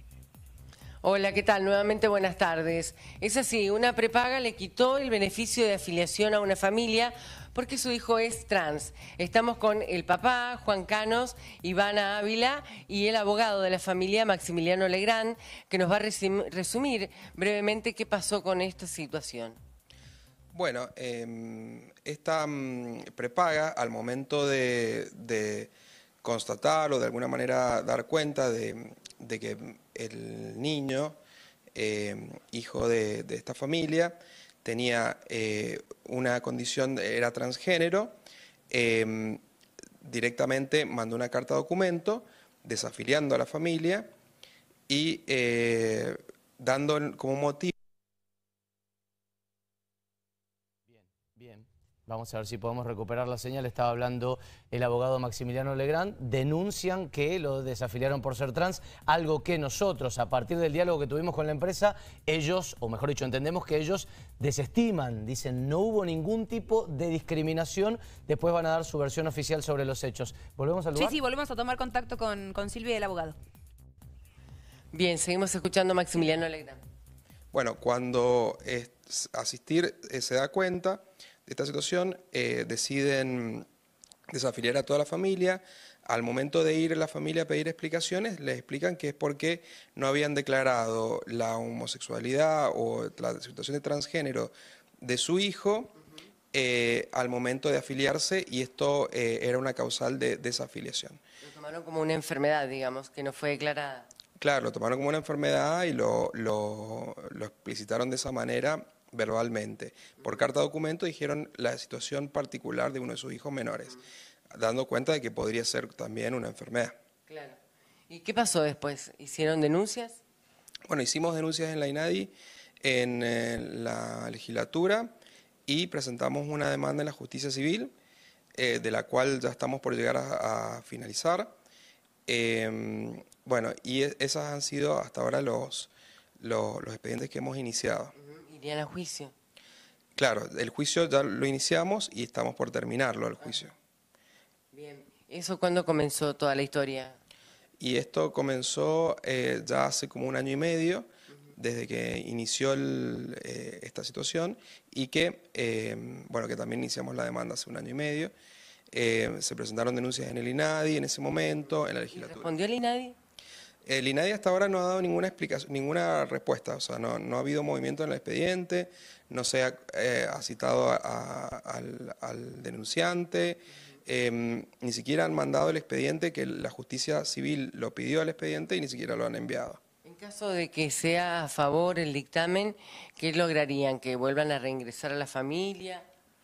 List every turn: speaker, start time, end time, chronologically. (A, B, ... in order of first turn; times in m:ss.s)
0:01.0-0:19.6 A
0:20.5-0:25.7 B
0:26.2-0:31.2 B
0:31.7-0:38.1 B
0:38.7-0:39.4 B
0:40.0-0:44.1 B
0:44.9-0:47.7 B
0:50.9-1:11.2 C
1:11.0-1:13.4 D
1:14.9-1:16.8 A
1:17.5-1:23.6 B
1:24.3-1:35.9 B
1:36.5-1:41.2 B
1:41.4-1:44.1 A
1:44.4-1:54.0 B
1:54.5-1:57.0 B
1:57.3-1:57.6 A
1:58.1-2:00.2 A
2:00.9-2:05.1 B
2:05.7-2:07.9 B
2:08.5-2:11.5 B
2:12.3-2:18.1 B
2:18.1-2:19.3 A
2:20.2-2:23.7 B
2:23.4-2:23.7 A
2:24.7-2:27.2 A
2:27.8-2:38.3 B
2:38.9-2:42.5 B
2:42.0-2:43.2 A
2:43.8-2:59.8 B
3:00.0-3:06.1 A